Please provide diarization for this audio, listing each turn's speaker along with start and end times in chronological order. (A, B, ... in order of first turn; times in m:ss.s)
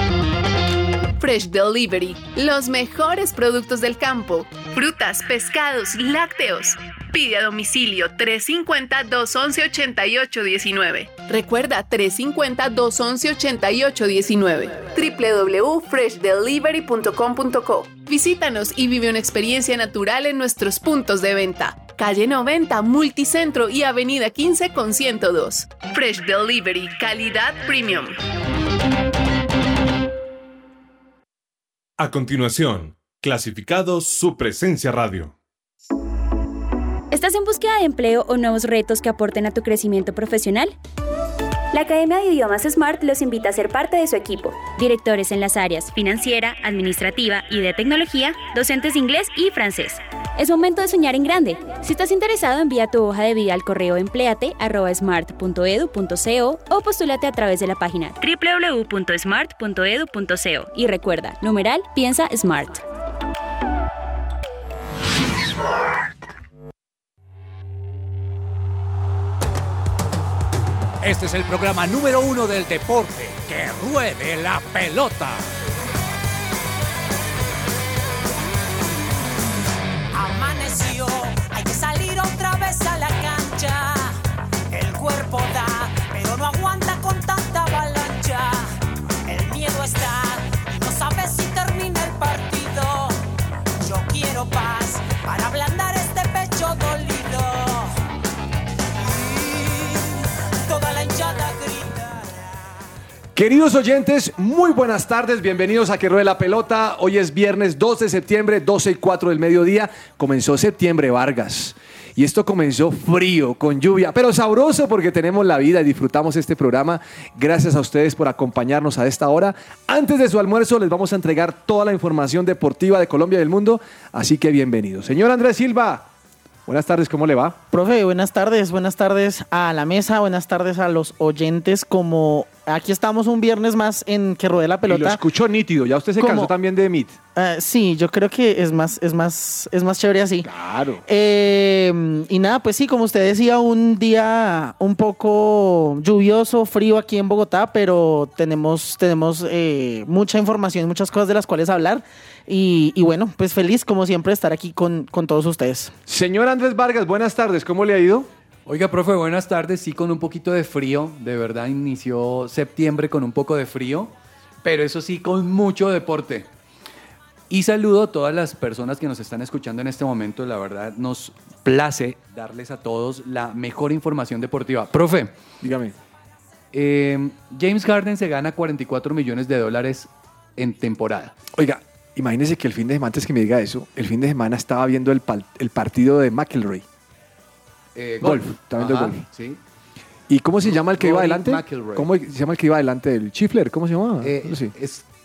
0:01.2-0:28.2 A
0:32.0-0:35.3 B
0:37.1-0:40.7 C
0:41.7-1:02.8 C
1:11.0-1:15.5 D
1:20.1-1:24.2 E
1:24.7-1:28.7 E
1:29.3-1:33.2 E
1:33.8-1:37.9 E
1:39.1-1:42.3 E
1:43.3-2:06.1 F
2:06.6-2:07.6 F
2:07.7-2:15.2 G
2:14.9-2:17.2 F
2:16.2-2:16.5 G
2:17.3-2:20.5 G
2:20.4-2:21.0 F
2:21.1-2:35.9 G
2:36.1-2:38.3 F
2:38.6-2:44.1 H
2:44.6-2:46.5 H
2:47.5-2:55.3 H
2:55.6-2:55.9 F
2:56.7-3:01.3 H
3:01.5-3:06.8 F
3:07.9-3:09.6 H
3:08.2-3:09.2 F
3:10.3-3:14.7 F
3:10.7-3:12.1 H
3:14.2-3:15.0 H